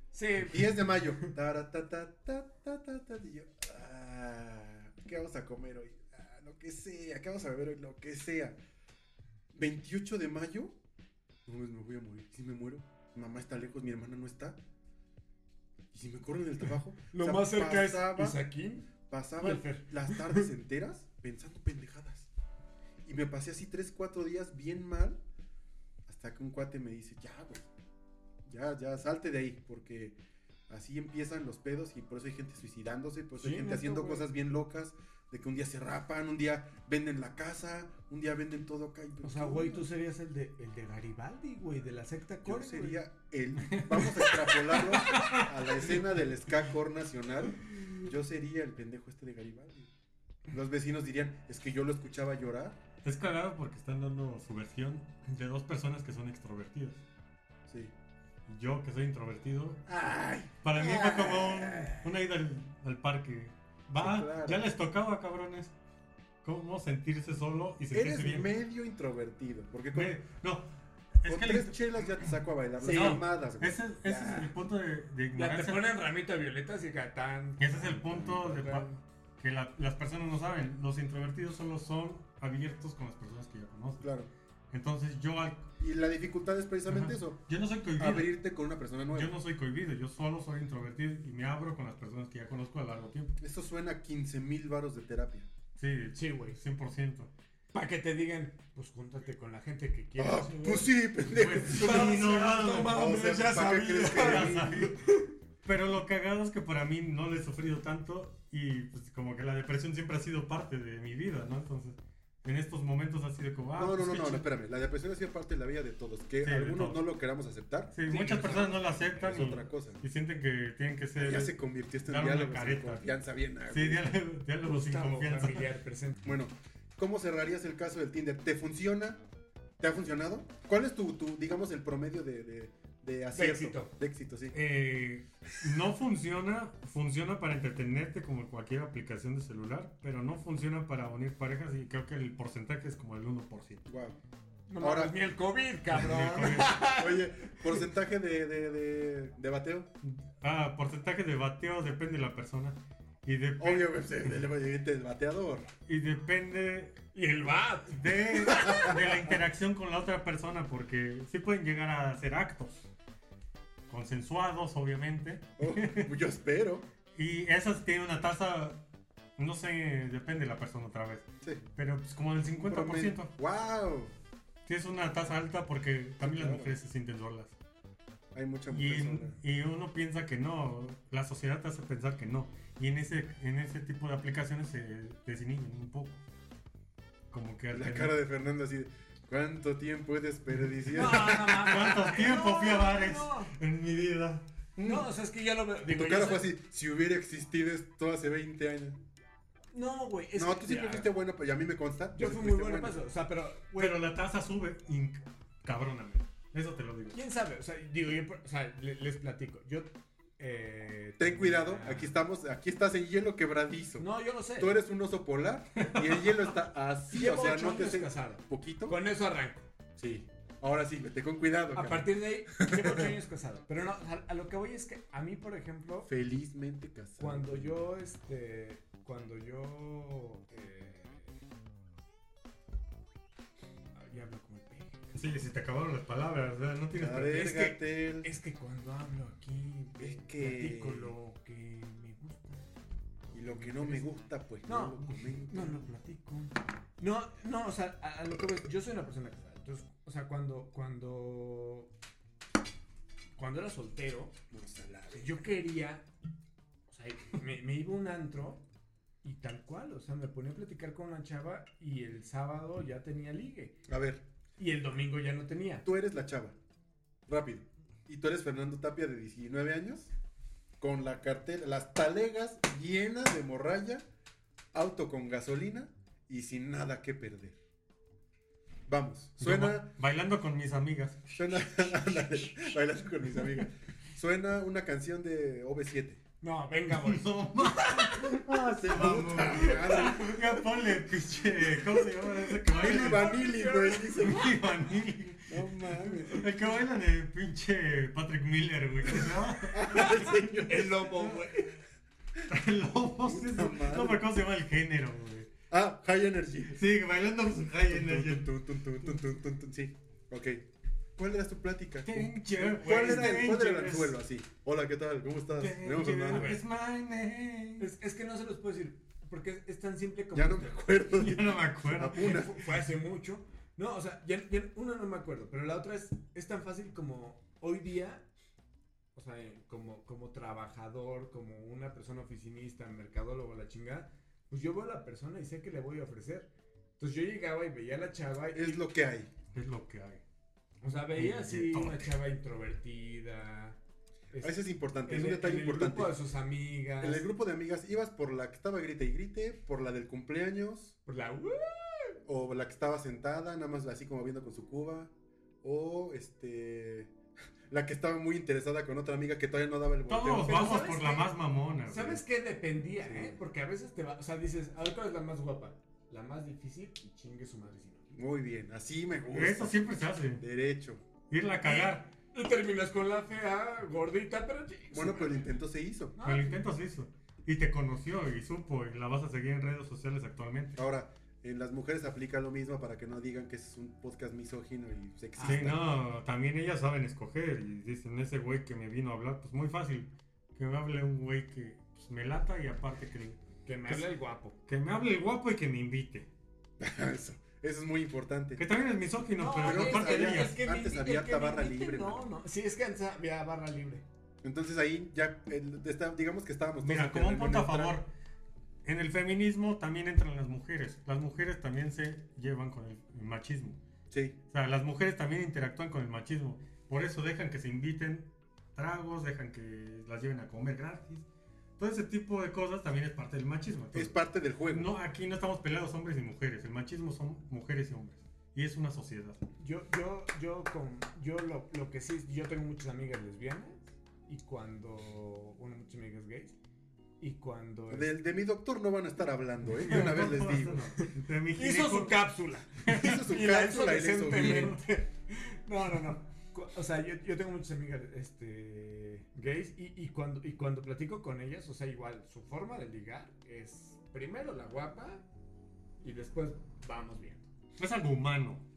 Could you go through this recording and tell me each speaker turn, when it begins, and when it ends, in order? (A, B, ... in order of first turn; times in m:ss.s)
0:00.1-0:01.3 A
0:00.4-0:08.6 B
0:09.5-0:10.7 B
0:11.4-0:14.6 B
0:15.9-0:18.4 B
0:17.1-0:18.9 A
0:19.1-0:22.3 B
0:19.4-0:20.5 A
0:23.0-0:25.2 B
0:26.1-0:27.7 B
0:28.4-0:30.2 B
0:30.7-0:39.8 B
0:33.4-0:34.3 A
0:39.2-0:43.0 A
0:42.4-0:49.9 B
0:43.7-0:44.3 C
0:44.1-0:46.0 A
0:45.1-0:45.4 C
0:50.5-0:52.8 B
0:53.0-0:57.0 C
0:57.7-0:57.9 B
0:58.5-0:59.8 C
0:59.9-1:02.0 B
1:00.6-1:05.7 C
1:04.0-1:04.7 B
1:06.4-1:08.5 C
1:07.9-1:10.2 B
1:09.9-1:10.7 C
1:11.2-1:12.3 C
1:11.3-1:14.5 B
1:12.8-1:13.2 A
1:12.9-1:15.9 C
1:15.3-1:19.0 A
1:17.6-1:18.9 C
1:19.4-1:24.1 C
1:24.0-1:24.3 B
1:24.7-1:25.7 C
1:25.8-1:27.4 B
1:26.9-1:28.3 C
1:28.0-1:29.3 B
1:29.1-1:33.4 C
1:33.4-1:35.5 B
1:35.8-1:37.3 C
1:36.1-1:36.6 A
1:37.7-1:45.3 A
1:40.2-1:44.9 B
1:41.3-1:43.0 C
1:44.1-1:45.0 C
1:45.6-1:54.4 C
1:53.8-2:00.0 B
1:56.4-1:57.0 C
1:57.9-2:01.5 C
1:58.1-1:59.4 A
2:01.2-2:04.1 B
2:02.0-2:03.1 C
2:03.7-2:05.7 C
2:04.6-2:06.2 A
2:06.2-2:09.2 B
2:09.8-2:14.6 B
2:13.3-2:13.9 A
2:14.5-2:23.8 C
2:23.9-2:24.2 B
2:24.7-2:27.8 A
2:24.8-2:25.1 B
2:25.9-2:26.8 C
2:26.6-2:29.9 B
2:30.0-2:33.9 C
2:33.6-2:35.7 B
2:35.9-2:37.0 C
2:37.1-2:39.1 A
2:37.9-2:42.9 C
2:38.5-2:39.1 B
2:43.9-2:46.1 C
2:45.6-2:46.8 B
2:47.2-2:48.8 C
2:49.4-2:51.2 C
2:51.8-2:53.3 C
2:52.5-2:54.1 B
2:54.6-2:57.5 C
2:56.2-2:56.8 B
2:58.3-2:59.4 B
2:58.7-3:06.2 C
3:07.3-3:08.1 C
3:07.7-3:12.2 B
3:10.9-3:13.5 A
3:11.1-3:14.4 C
3:14.8-3:15.0 B
3:14.8-3:16.5 A
3:15.9-3:19.0 B
3:19.7-3:21.1 A
3:20.3-3:23.0 B
3:22.1-3:24.0 A
3:23.8-3:27.2 C
3:27.1-3:32.1 A
3:31.2-3:34.0 B
3:34.0-3:34.8 A
3:34.6-3:39.0 B
3:35.8-3:36.4 C
3:37.1-3:39.7 A
3:40.0-3:43.1 B
3:41.7-3:46.1 A
3:46.0-3:47.8 B
3:47.2-3:51.3 A
3:54.0-3:55.2 A
3:55.1-3:57.5 C
3:57.0-3:58.3 B
3:57.3-4:02.7 A
4:00.0-4:01.1 B
4:03.3-4:04.1 A
4:03.3-4:05.8 B
4:04.6-4:11.9 A
4:13.4-4:14.4 A
4:14.5-4:15.4 B
4:15.1-4:16.0 A
4:16.9-4:18.6 A
4:19.2-4:23.8 A
4:23.9-4:24.2 B
4:24.6-4:25.9 A
4:25.8-4:26.6 B
4:27.3-4:30.1 B
4:30.8-4:34.0 B
4:34.7-4:37.6 B
4:38.9-4:39.9 B
4:39.4-4:41.3 C
4:41.3-4:46.2 B
4:46.4-4:48.5 A
4:46.9-4:53.3 C
4:48.8-4:50.3 B
4:49.1-4:50.7 A
4:51.6-4:54.7 A
4:52.7-4:54.6 B
4:54.2-5:01.3 C
4:55.5-4:56.4 B
4:56.1-4:56.4 A
4:59.1-5:01.3 B
4:59.8-5:01.8 A
5:02.5-5:05.5 C
5:03.2-5:04.2 B
5:05.7-5:06.8 B
5:06.7-5:08.5 C
5:07.9-5:10.6 B
5:11.2-5:16.6 B
5:12.0-5:14.2 C
5:12.5-5:13.5 A
5:15.6-5:17.8 C
5:16.3-5:16.6 A
5:17.8-5:20.8 A
5:20.3-5:22.6 B
5:21.1-5:22.5 C
5:22.1-5:28.3 A
5:29.1-5:38.9 A
5:38.5-5:39.3 B
5:39.5-5:40.2 C
5:40.8-5:43.8 A
5:41.1-5:42.1 C
5:44.3-5:47.3 A
5:44.4-5:46.2 B
5:47.0-5:50.9 B
5:51.0-5:52.2 A
5:52.2-5:55.1 B
5:55.6-5:57.1 B
5:57.7-6:00.8 B
6:00.1-6:02.2 C
6:00.4-6:01.3 A
6:01.9-6:08.1 A
6:03.0-6:03.4 B
6:08.1-6:11.0 B
6:09.3-6:10.4 C
6:11.3-6:12.1 C
6:11.6-6:15.6 A
6:14.9-6:16.2 B
6:16.2-6:16.7 A
6:16.2-6:20.8 C
6:20.8-6:25.8 B
6:25.4-6:25.8 A
6:25.4-6:34.0 C
6:33.6-6:34.6 A
6:34.7-6:36.3 C
6:36.8-6:38.6 B
6:38.6-6:40.6 C
6:39.4-6:44.0 A
6:39.6-6:42.2 B
6:44.4-6:48.0 B
6:46.8-6:48.1 C
6:48.8-6:53.8 C
6:54.1-6:54.4 B
6:54.5-7:01.2 C
7:01.8-7:04.1 C
7:03.9-7:04.9 B
7:04.7-7:09.4 C
7:09.6-7:16.6 A
7:17.2-7:18.1 A
7:17.9-7:20.8 B
7:19.7-7:22.3 C
7:19.9-7:35.2 A
7:22.8-7:23.2 C
7:22.9-7:24.8 B
7:24.3-7:24.8 C
7:36.0-7:37.5 A
7:37.8-7:38.6 C